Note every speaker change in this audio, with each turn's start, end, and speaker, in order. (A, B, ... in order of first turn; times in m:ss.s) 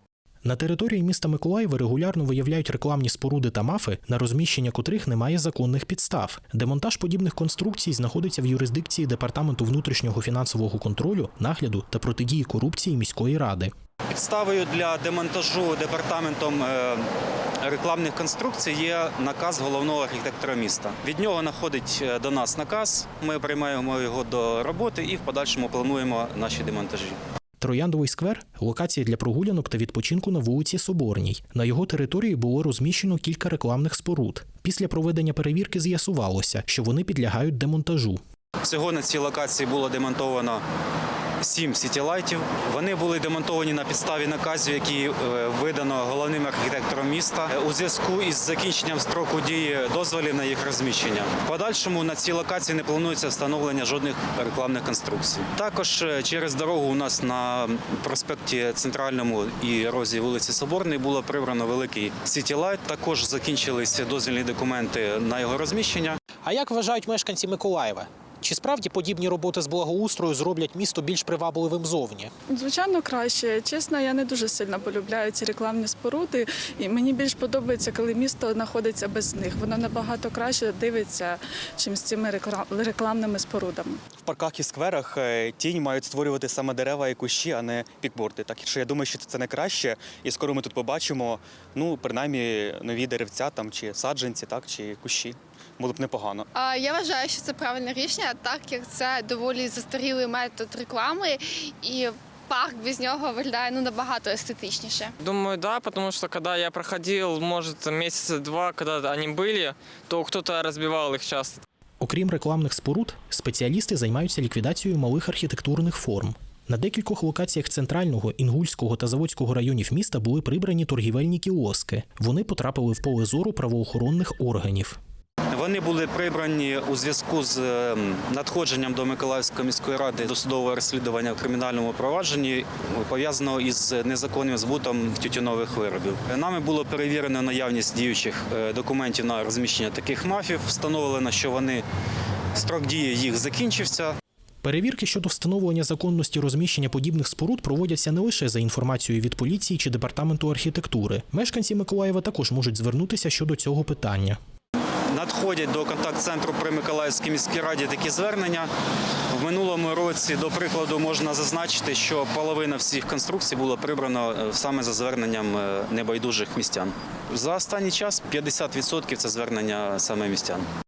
0:00.4-0:13.7 A
0:14.1-0:17.1 B
0:17.6-0:27.2 B
0:27.6-0:38.2 A
0:38.6-0:40.6 B
0:41.4-1:06.2 B
1:06.4-1:12.3 A
1:12.5-1:24.0 C
1:24.2-1:36.5 D
1:36.6-1:45.1 E
1:45.2-1:51.6 F
1:52.0-2:05.0 A
2:05.5-2:21.8 B
2:22.6-2:24.2 B
2:24.6-2:34.4 A
2:35.1-2:38.7 B
2:39.3-2:50.6 B